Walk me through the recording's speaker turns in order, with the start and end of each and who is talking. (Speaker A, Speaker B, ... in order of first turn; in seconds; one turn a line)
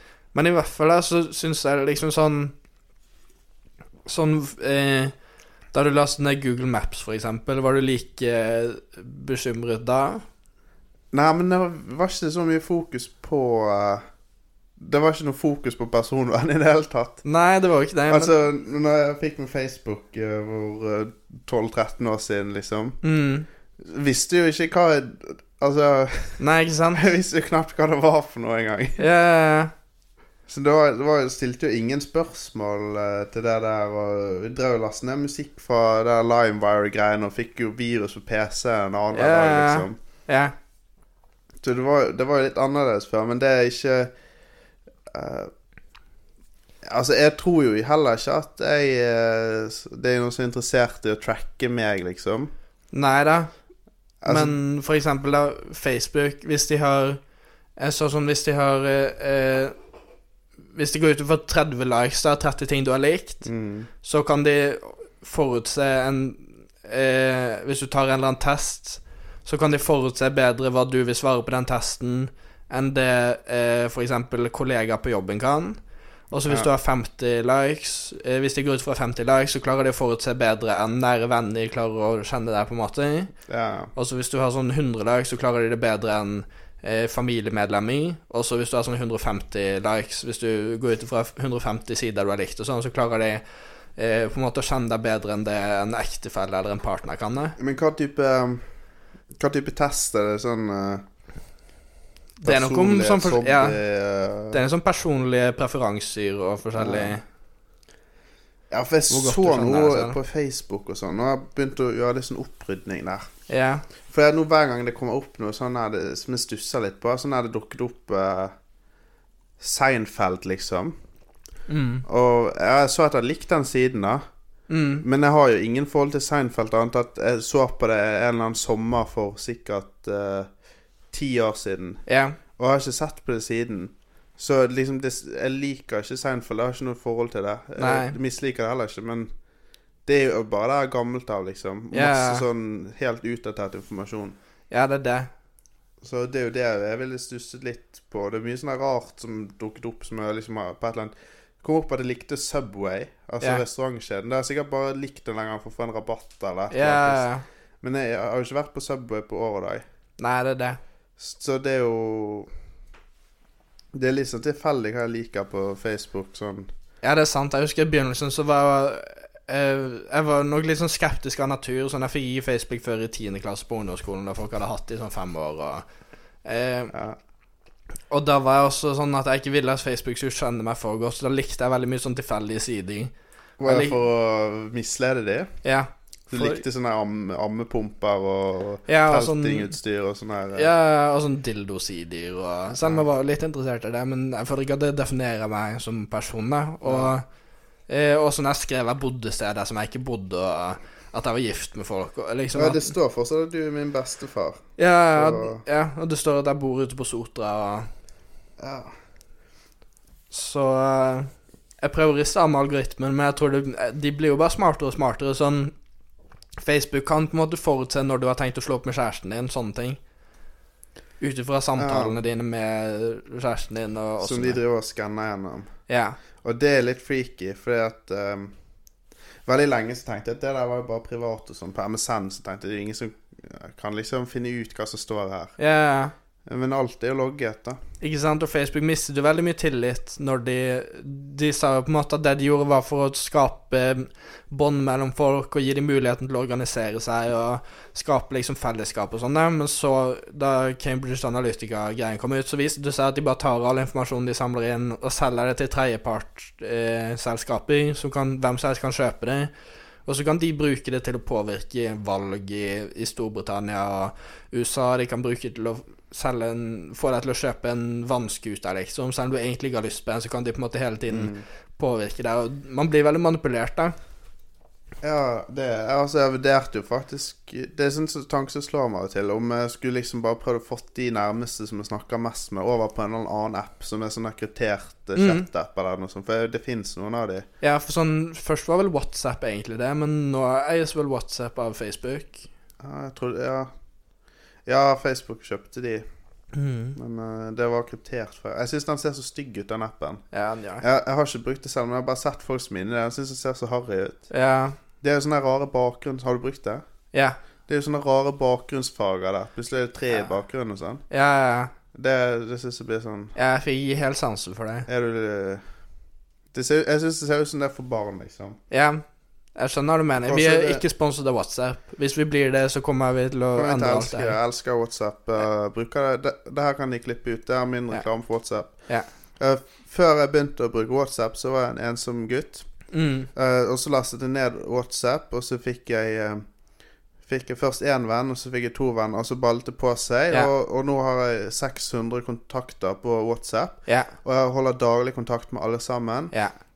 Speaker A: 0.3-2.5
Speaker A: 4.1-5.1
Speaker A: 5.7-10.2
Speaker B: 11.1-14.0
Speaker B: 14.8-17.2
Speaker A: 17.2-18.3
Speaker B: 18.1-23.0
Speaker A: 23.0-23.5
Speaker B: 23.8-26.4
Speaker A: 26.4-27.0
Speaker B: 26.9-29.0
Speaker A: 29.0-29.7
Speaker B: 30.5-40.0
Speaker A: 39.1-40.5
Speaker B: 41.6-44.1
Speaker B: 45.1-45.5
Speaker B: 46.8-52.5
Speaker A: 52.9-53.5
Speaker B: 54.2-54.6
Speaker A: 54.3-57.2
Speaker A: 57.8-59.8
Speaker A: 60.7-63.5
Speaker B: 63.4-63.9
Speaker A: 64.0-75.8
Speaker A: 76.3-83.3
Speaker B: 83.5-83.9
Speaker A: 84.0-93.4
Speaker A: 94.0-97.6
Speaker B: 97.6-98.7
Speaker B: 99.3-101.0
Speaker A: 102.4-103.8
Speaker B: 102.4-104.6
Speaker A: 104.5-107.2
Speaker B: 106.8-107.2
Speaker B: 108.7-113.3
Speaker A: 109.1-110.2
Speaker A: 113.5-113.8
Speaker B: 114.1-118.5
Speaker B: 119.6-121.0
Speaker A: 121.7-122.0
Speaker B: 122.1-124.2
Speaker A: 124.7-125.0
Speaker B: 125.0-130.5
Speaker B: 131.1-132.0
Speaker A: 132.1-132.4
Speaker B: 132.6-139.3
Speaker A: 137.8-138.2
Speaker B: 140.1-144.4
Speaker A: 141.9-142.4
Speaker A: 144.7-145.3
Speaker B: 146.0-157.2
Speaker A: 156.7-157.4
Speaker B: 157.8-159.8
Speaker A: 160.2-160.8
Speaker B: 161.2-162.5
Speaker B: 163.9-166.7
Speaker A: 167.0-175.8
Speaker A: 176.4-176.9
Speaker B: 176.9-177.2
Speaker A: 178.1-183.1
Speaker B: 183.6-185.6
Speaker A: 183.6-184.0
Speaker A: 185.6-186.6
Speaker B: 186.3-190.7
Speaker A: 188.9-189.7
Speaker A: 190.6-197.2
Speaker B: 192.7-193.1
Speaker B: 196.8-197.2
Speaker A: 197.9-202.9
Speaker B: 202.5-205.6
Speaker A: 204.8-207.9
Speaker B: 208.6-208.9
Speaker A: 210.3-211.3
Speaker A: 211.8-215.7
Speaker A: 216.6-220.0
Speaker A: 221.2-224.6
Speaker B: 221.8-222.2
Speaker B: 224.2-225.7
Speaker A: 225.9-226.2
Speaker B: 226.4-228.5
Speaker B: 229.4-235.6
Speaker A: 235.6-236.1
Speaker B: 236.5-237.8
Speaker A: 238.0-259.5
Speaker A: 260.1-273.9
Speaker B: 271.1-271.4
Speaker B: 275.0-287.5
Speaker A: 285.1-285.5
Speaker A: 287.6-292.5
Speaker B: 292.8-293.7
Speaker B: 294.7-296.1
Speaker A: 296.5-297.0
Speaker B: 296.9-300.2
Speaker A: 300.3-300.8
Speaker B: 300.8-304.3
Speaker A: 304.3-304.8
Speaker B: 305.0-306.8
Speaker B: 307.7-311.0
Speaker A: 311.1-311.7
Speaker B: 311.9-313.4
Speaker A: 313.4-314.9
Speaker B: 314.9-315.6
Speaker B: 316.5-318.6
Speaker A: 318.7-319.0
Speaker A: 319.6-324.4
Speaker B: 320.3-320.8
Speaker B: 323.6-336.5
Speaker A: 332.9-333.3
Speaker B: 337.2-346.3
Speaker A: 343.9-344.1